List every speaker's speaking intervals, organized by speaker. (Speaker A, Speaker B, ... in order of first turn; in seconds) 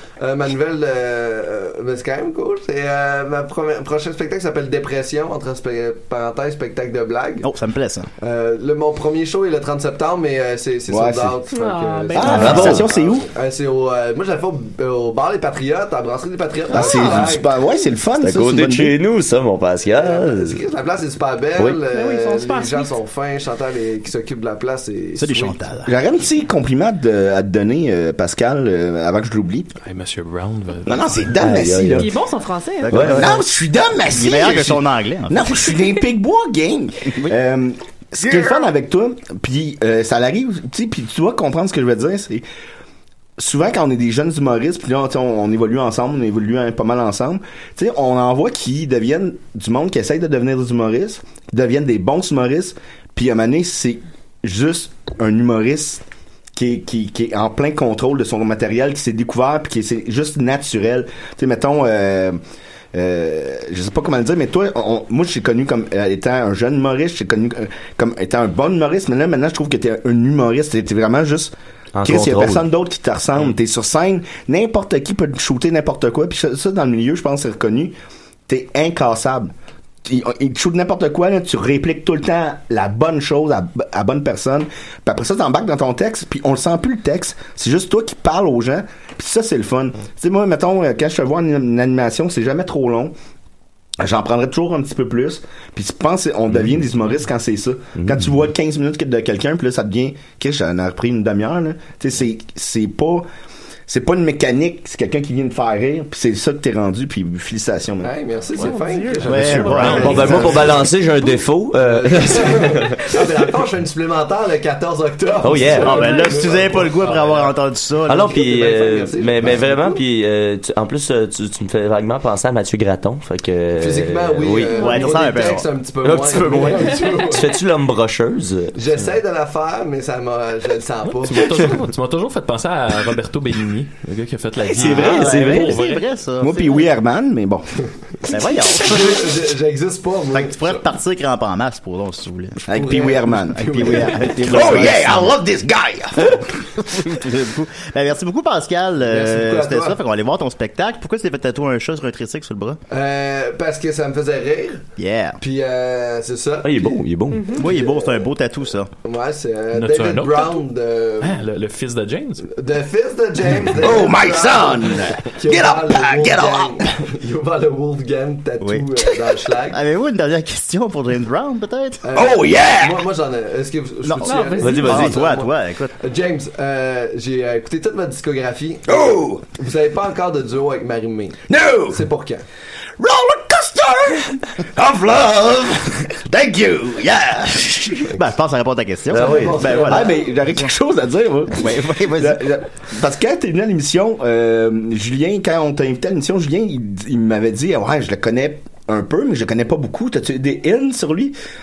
Speaker A: 0.2-7.5, 8.2-17.6, 19.9-25.6, 108.0-110.9, 111.8-117.5, 118.1-120.0, 123.8-127.5, 128.7-131.7, 138.6-140.8, 142.7-145.0, 149.0-150.0, 152.9-154.8, 155.4-157.0, 157.6-158.3, 159.0-161.4, 162.5-169.8, 172.0-182.4, 189.1-190.3
Speaker B: 7.4-8.1, 12.3-12.8, 25.2-25.9, 32.8-33.4, 34.1-35.6, 109.2-110.8, 115.7-118.3, 124.7-125.7, 134.7-136.9, 138.3-139.4, 140.3-142.6, 143.5-145.4, 146.9-152.8, 155.0-155.4, 157.5-158.9, 168.6-168.9, 169.7-172.0, 174.0-175.9, 188.1-190.7, 191.5-192.5
Speaker C: 10.9-11.3, 12.1-13.3, 16.7-19.0, 25.9-29.7, 30.9-32.1, 33.0-42.4, 43.4-56.0, 56.5-62.4, 62.9-77.9, 78.5-79.5, 80.0-93.1, 94.0-103.2, 103.9-108.1, 136.4-137.7, 142.7-146.4, 163.7-166.9, 172.1-173.1, 178.9-179.4, 181.5-182.0, 183.0-188.1, 189.8-201.3
Speaker D: 11.5-12.8, 21.9-22.9, 32.0-33.2, 108.6-110.5, 115.9-116.2, 124.8-125.1, 126.8-127.1, 157.3-157.7, 174.2-174.9
Speaker E: 12.3-12.8, 18.1-20.6, 31.3-32.1, 32.9-33.4, 71.9-72.7, 98.0-98.2, 109.8-113.4, 115.4-116.2, 118.1-124.9, 126.0-128.7, 134.7-135.8, 156.6-157.5, 174.6-175.2, 189.1-189.8
Speaker F: 29.8-31.3, 109.6-110.2, 131.0-136.0, 159.7-160.6, 161.2-162.5